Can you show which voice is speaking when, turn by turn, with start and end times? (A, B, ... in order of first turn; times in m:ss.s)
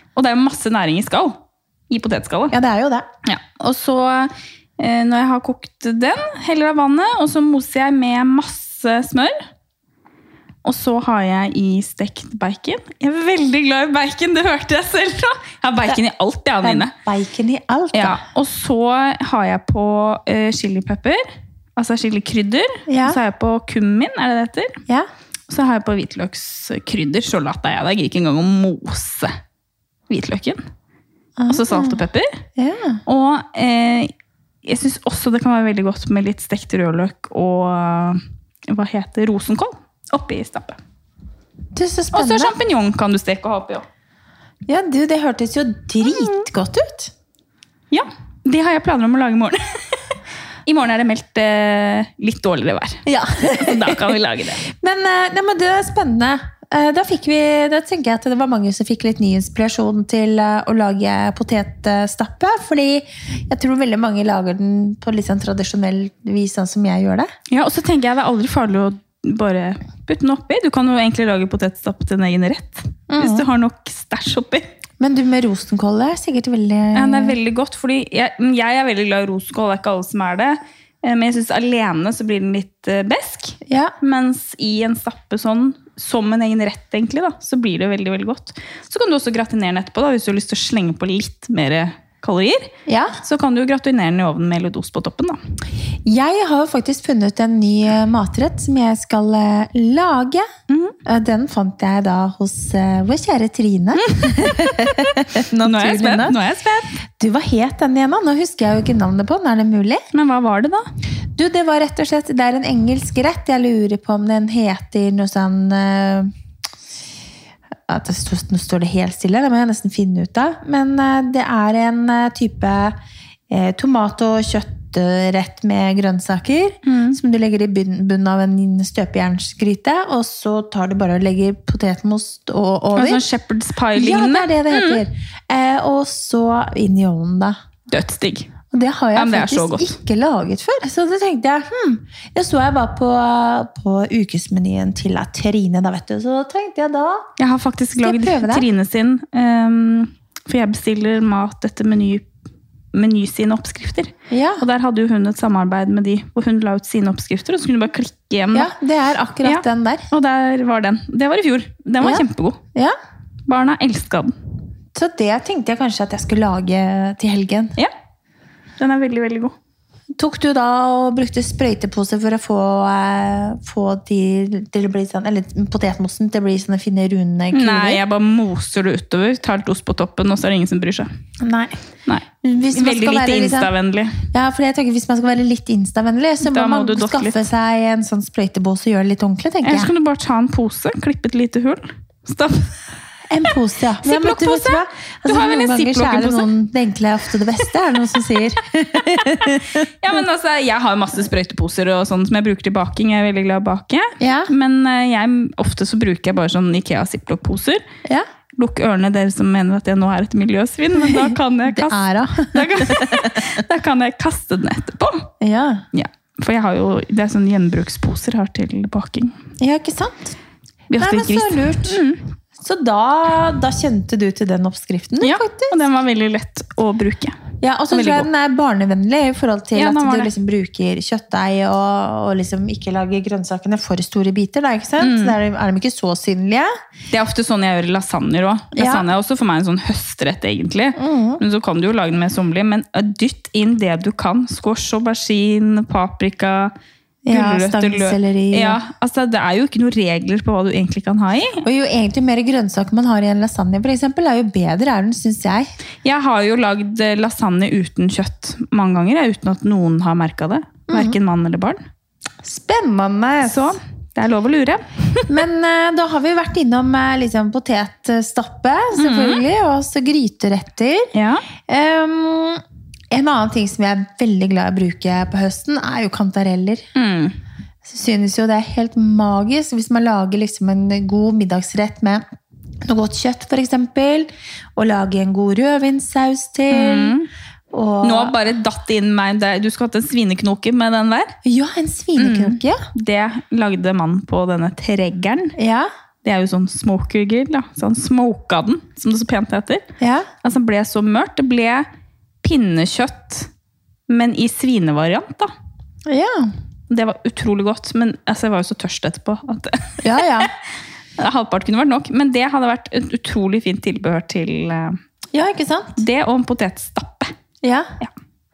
0:00.2-0:02.5 A
0:02.5-0:03.0 B
0:03.2-0:09.4 A
0:10.6-0:16.9 A
0:16.6-0:18.2 B
0:17.9-0:21.2 A
0:21.8-0:24.8 A
0:22.9-0:23.2 B
0:25.5-0:29.4 A
0:30.1-0:30.6 A
0:31.4-0:32.0 B
0:31.5-0:32.3 A
0:32.6-0:33.0 B
0:33.0-0:34.1 A
0:34.6-0:40.8 A
0:41.7-0:42.5 B
0:42.1-0:43.8 A
0:44.7-0:47.1 B
0:46.1-0:46.4 A
0:47.9-0:49.8 A
0:50.6-0:54.6 A
0:53.0-1:07.3 B
1:07.5-1:14.7 A
1:13.1-1:13.5 B
1:15.0-1:17.4 B
1:16.9-1:35.4 A
1:23.7-1:23.9 B
1:32.8-1:33.1 B
1:36.0-1:40.5 B
1:40.7-1:41.0 A
1:41.0-1:46.4 B
1:44.0-1:47.0 A
1:47.1-1:50.0 B
1:50.1-1:50.8 A
1:51.4-1:56.3 B
1:57.9-2:03.0 B
2:03.5-2:13.2 B
2:06.8-2:07.2 A
2:12.9-2:15.0 A
2:13.9-2:17.5 B
2:17.9-2:18.5 A
2:18.7-2:27.3 B
2:19.1-2:19.9 A
2:27.4-2:32.3 A
2:28.0-2:28.7 B
2:32.9-2:38.7 A
2:34.3-2:34.6 B
2:38.5-2:40.1 B
2:39.4-2:42.6 A
2:42.0-2:42.9 B
2:43.5-2:44.3 A
2:44.9-2:47.8 B
2:48.8-2:49.5 A
2:50.2-2:58.0 B
2:57.5-3:01.1 A
3:01.4-3:01.8 B
3:02.1-3:04.2 A
3:02.4-3:03.7 B
3:04.3-3:09.9 B
3:06.4-3:07.4 A
3:09.6-3:12.7 A
3:13.3-3:19.8 B
3:14.0-3:16.5 A
3:20.0-3:27.8 A
3:24.2-3:24.5 B
3:28.6-3:35.3 A
3:31.0-3:33.5 B
3:35.4-3:35.8 B
3:35.9-3:39.4 A
3:39.6-3:40.4 B
3:40.9-3:42.2 A
3:41.0-3:42.0 B
3:42.6-3:45.8 B
3:45.2-3:47.4 A
3:47.6-3:56.7 B
3:47.9-3:48.3 A
3:49.7-3:50.3 A
3:55.0-3:55.4 A
3:57.1-4:06.7 A
3:58.7-3:59.0 B
4:01.0-4:01.4 B
4:07.2-4:08.8 B
4:07.3-4:11.6 A
4:11.6-4:15.7 B
4:16.0-4:21.8 A
4:20.9-4:21.2 B
4:22.4-4:23.8 B
4:23.4-4:25.4 A
4:25.3-4:31.1 B
4:28.9-4:29.4 A
4:31.1-4:31.4 A
4:31.7-4:36.8 B
4:36.9-4:37.4 A
4:37.8-4:42.2 B
4:42.8-4:47.2 B
4:46.7-4:47.3 A
4:47.7-4:48.3 B
4:48.0-4:51.3 A
4:51.4-4:52.8 B
4:52.2-4:55.6 A
4:55.6-4:55.9 B
4:56.2-4:59.8 A
5:00.0-5:00.3 B
5:00.4-5:01.8 A
5:02.4-5:03.5 A
5:04.1-5:05.5 A
5:06.0-5:06.5 B
5:06.9-5:10.5 A
5:10.0-5:10.5 B
5:11.2-5:15.0 A
5:15.3-5:16.0 B
5:16.0-5:17.3 A
5:17.6-5:17.9 B